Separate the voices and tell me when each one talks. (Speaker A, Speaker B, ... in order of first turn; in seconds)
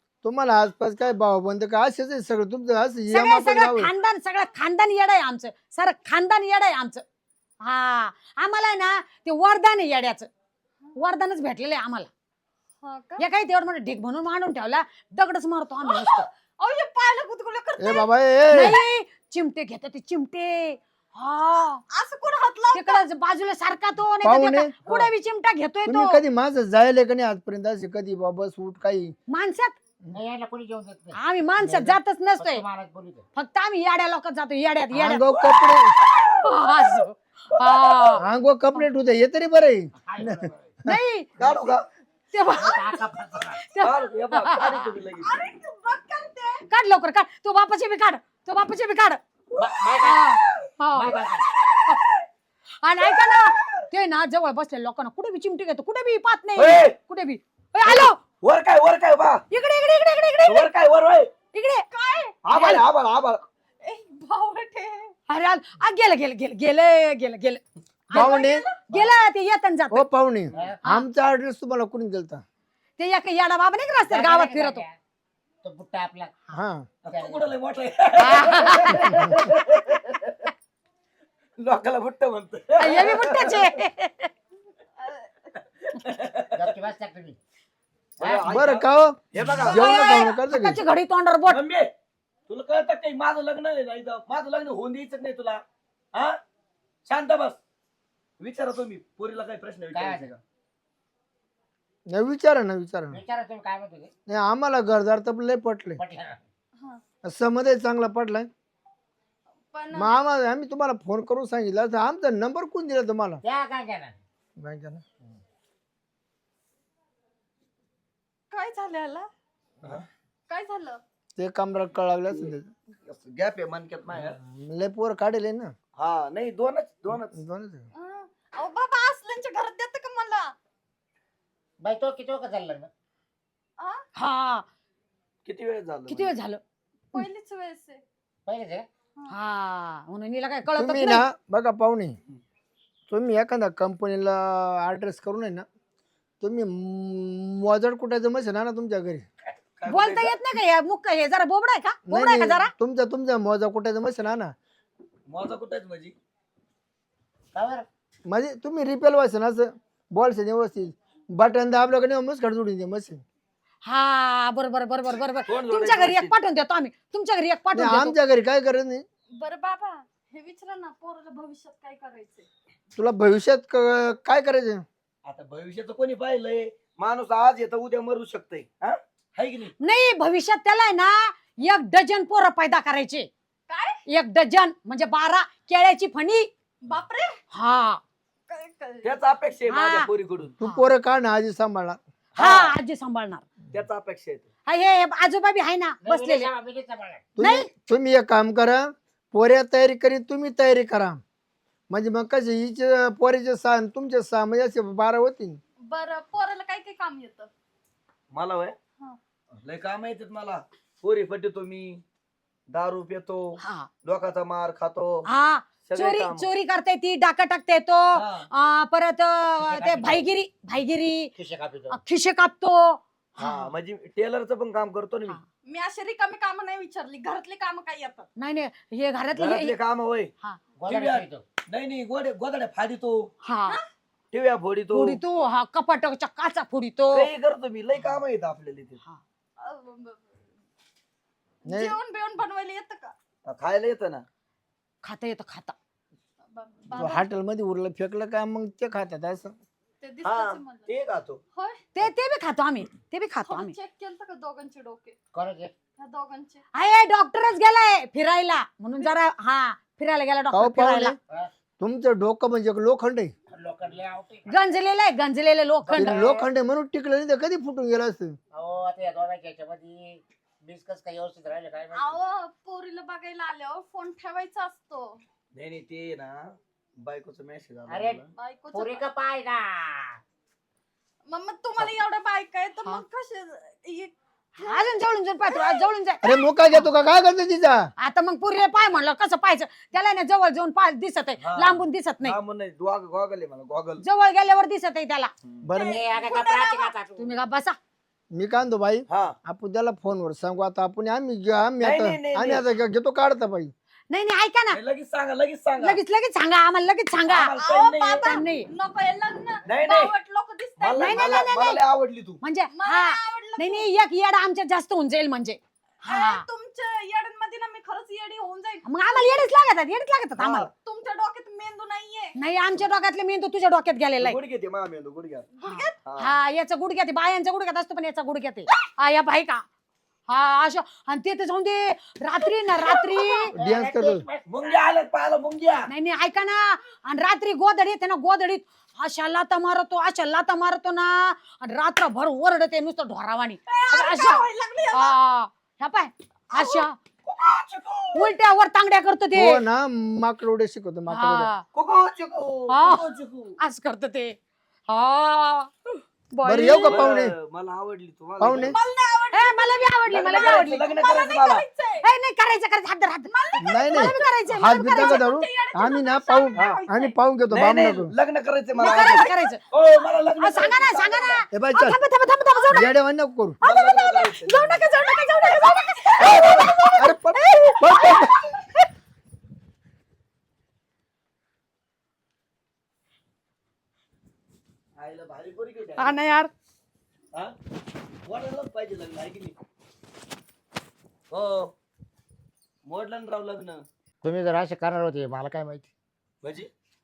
Speaker A: 0.2-3.9, 17.8-18.8, 24.2-25.1, 25.9-29.1, 31.7-32.0, 34.9-35.9, 38.2-41.7, 68.1-68.6, 69.9-72.4, 76.5-76.9, 79.0-79.4, 88.4-90.8, 102.1-103.2, 104.3-106.0, 107.2-108.5, 109.9-113.4, 114.6-115.0, 121.4-122.7, 124.3-125.7, 127.3-127.8, 140.7-142.2, 143.1-145.7, 146.4-149.2, 152.1-154.5, 158.2-163.2, 167.7-169.0, 172.9-174.8, 190.6-192.0, 197.4-201.2, 201.9-205.6, 241.7-241.9, 246.9-249.6, 260.5-261.1, 261.8-263.3, 265.9-268.4, 286.2-287.9, 295.6-296.0, 298.3-303.7, 333.5-334.2, 349.3-351.5, 356.4-357.3, 358.4-358.8, 363.6-368.1, 371.5-372.0, 372.7-373.6, 376.9-378.4
Speaker B: 3.1-7.0, 7.6-10.3, 11.0-12.1, 13.2-16.3, 18.5-21.8, 22.7-26.2, 29.3-29.8, 31.1-32.6, 33.3-35.2, 36.4-38.2, 40.9-41.3, 42.3-42.9, 43.6-44.9, 46.7-49.2, 50.0-51.2, 52.8-58.2, 59.5-60.7, 61.5-61.8, 62.5-62.8, 65.3-70.0, 73.0-74.8, 78.2-79.2, 82.8-84.3, 89.7-91.6, 134.2-134.6, 136.1-136.6, 139.3-141.2, 149.9-152.7, 163.8-168.1, 179.8-183.3, 184.1-186.5, 187.5-188.0, 189.7-190.1, 192.4-193.4, 194.7-196.5, 197.4-197.7, 213.6-213.9, 215.3-221.3, 221.9-223.7, 228.4-229.7, 233.4-233.8, 234.9-237.3, 245.0-245.7, 251.9-253.7, 256.7-261.1, 264.5-266.4, 284.6-286.9, 288.0-292.4, 294.0-295.3, 297.2-297.8, 304.1-304.8, 305.8-307.5, 308.2-308.6, 311.0-311.8, 312.4-316.4, 318.8-320.7, 322.4-324.4, 325.6-329.6, 330.3-333.5, 335.9-346.9, 348.1-349.6, 351.1-351.6, 352.7-353.0, 353.6-354.4, 354.9-355.7, 356.3-357.1, 359.3-360.9, 362.0-365.2, 368.8-369.6, 370.4-372.9, 373.6-378.4, 386.0-386.5
Speaker C: 12.8-13.2, 15.8-18.1, 21.9-23.0, 45.2-46.6, 61.9-62.4, 63.8-65.1, 68.1-68.8, 85.0-85.3, 109.7-110.1, 118.5-119.3, 120.5-121.0, 128.0-130.5, 137.1-138.0, 169.4-172.5, 183.7-184.0, 186.8-187.4, 188.5-189.2, 205.9-207.5, 225.7-228.3, 239.6-240.3, 241.6-243.1, 246.5-247.3, 250.0-250.9, 251.5-251.8, 253.4-255.2, 256.0-256.6, 271.9-275.2, 278.3-279.1, 281.3-285.9, 295.8-296.9, 307.6-311.2, 312.7-313.9, 316.0-319.5, 320.7-322.4, 325.6-326.0, 343.7-345.1, 346.6-346.8, 358.7-362.1, 363.3-364.1, 364.9-367.1, 368.9-369.3, 375.4-376.4
Speaker D: 30.1-31.2, 32.4-33.2, 40.0-40.3, 42.6-43.6, 49.6-50.2, 50.9-51.4, 70.5-70.8, 74.1-75.0, 75.6-77.5, 78.7-79.4, 86.5-87.4, 88.2-88.6, 99.9-100.3, 103.1-104.1, 106.0-106.4, 113.4-114.2, 131.8-132.9, 138.4-138.9, 157.5-157.8, 196.0-197.3, 219.6-220.3, 221.3-222.0, 230.8-231.4, 255.3-255.7, 263.5-264.6, 268.5-272.2, 277.9-278.2, 278.7-280.2, 295.8-297.3, 333.6-334.7, 394.2-395.9
Speaker E: 37.5-38.2, 40.3-40.6, 41.4-41.8, 43.8-45.3, 49.5-50.6, 51.3-52.1, 53.0-53.7, 56.5-57.0, 57.9-59.4, 60.5-61.3, 62.4-63.4, 77.0-80.5, 81.6-83.6, 85.8-86.7, 88.2-90.2, 91.5-91.9, 92.5-95.6, 97.0-97.6, 98.4-100.4, 123.0-124.4, 126.0-127.3, 135.4-136.3, 149.8-150.4, 155.3-156.1, 165.5-166.3, 175.2-179.7, 189.0-190.5, 192.3-192.7, 193.7-194.4, 208.3-208.8, 209.6-212.0, 212.7-215.3, 215.8-216.5, 218.1-218.5, 223.4-225.4, 229.3-230.3, 230.9-233.3, 234.3-235.2, 237.1-239.0, 243.4-244.2, 250.2-251.4, 275.5-278.3, 291.4-294.0, 299.1-299.3, 301.8-302.6, 304.7-306.0, 307.3-308.4, 309.6-310.1, 310.8-312.4, 320.4-320.7, 324.2-325.5, 326.0-326.3, 334.5-335.9, 347.2-348.3, 351.7-353.6, 356.9-358.8, 360.1-361.6, 367.5-371.4, 373.6-374.9, 385.0-386.1, 388.2-389.5, 391.3-391.7, 392.9-393.9, 396.4-396.7